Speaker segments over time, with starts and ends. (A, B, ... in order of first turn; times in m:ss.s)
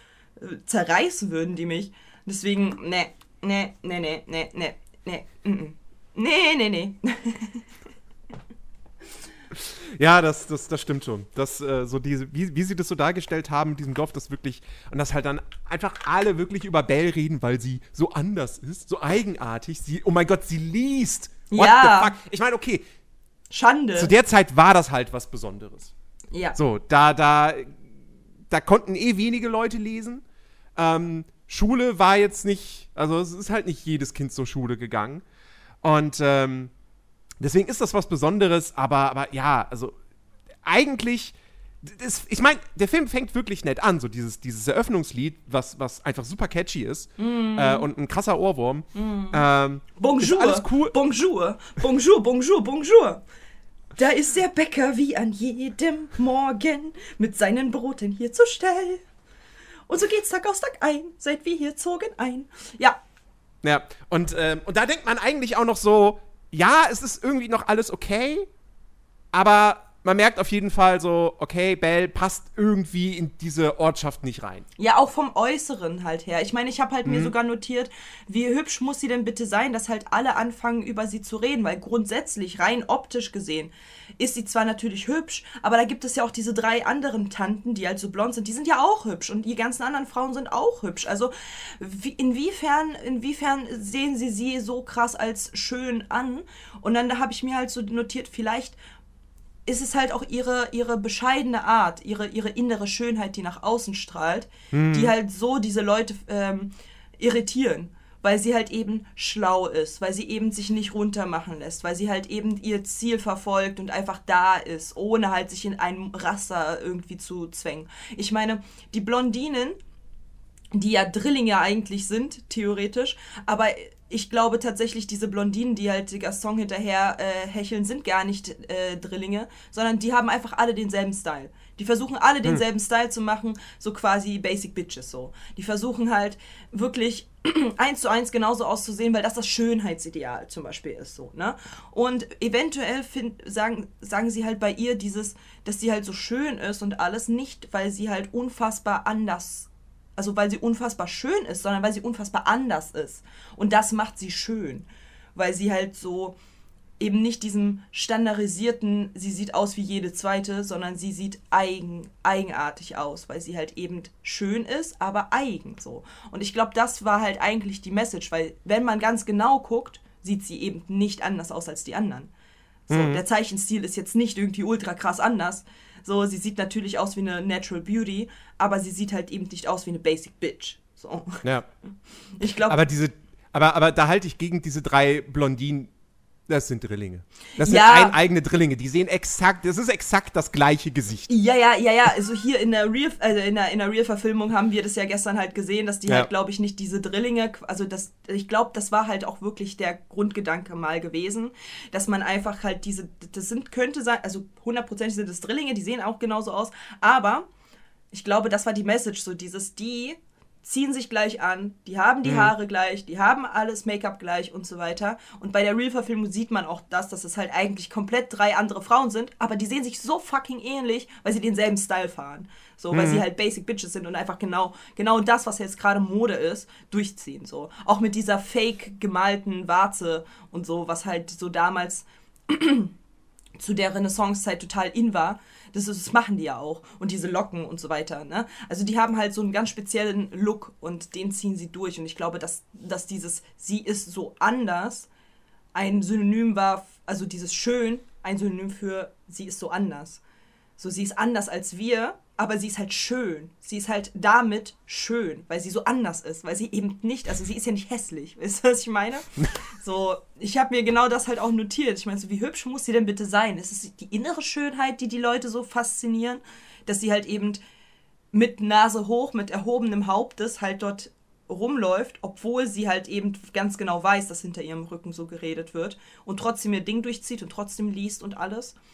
0:00.4-0:07.6 A
0:09.5-0:22.8 B
0:21.5-0:22.1 A
0:23.5-0:24.1 A
0:24.0-0:25.9 B
0:26.5-0:27.8 B
0:28.5-0:30.2 B
0:30.8-0:35.2 B
0:35.8-0:36.7 B
0:37.4-0:40.0 B
0:40.6-0:51.0 B
0:47.2-0:47.9 A
0:48.9-0:49.4 A
0:50.0-0:53.2 A
0:54.0-0:59.0 A
0:59.9-1:03.0 A
1:03.6-1:08.5 B
1:09.3-1:14.6 B
1:14.8-1:38.8 A
1:17.0-1:17.3 B
1:39.6-1:59.8 A
1:44.7-1:45.1 B
2:00.7-2:36.4 A
2:37.0-2:52.3 A
2:52.9-3:01.4 A
2:52.9-2:53.2 B
3:02.4-3:02.8 A
3:02.6-3:05.9 B
3:06.5-3:11.3 B
3:07.6-3:08.2 A
3:11.3-3:27.5 A
3:28.1-3:52.9 A
3:32.2-3:32.5 B
3:42.9-3:43.2 B
3:53.6-4:05.1 A
4:05.7-4:10.2 A
4:10.8-4:27.6 A
4:28.3-4:38.8 A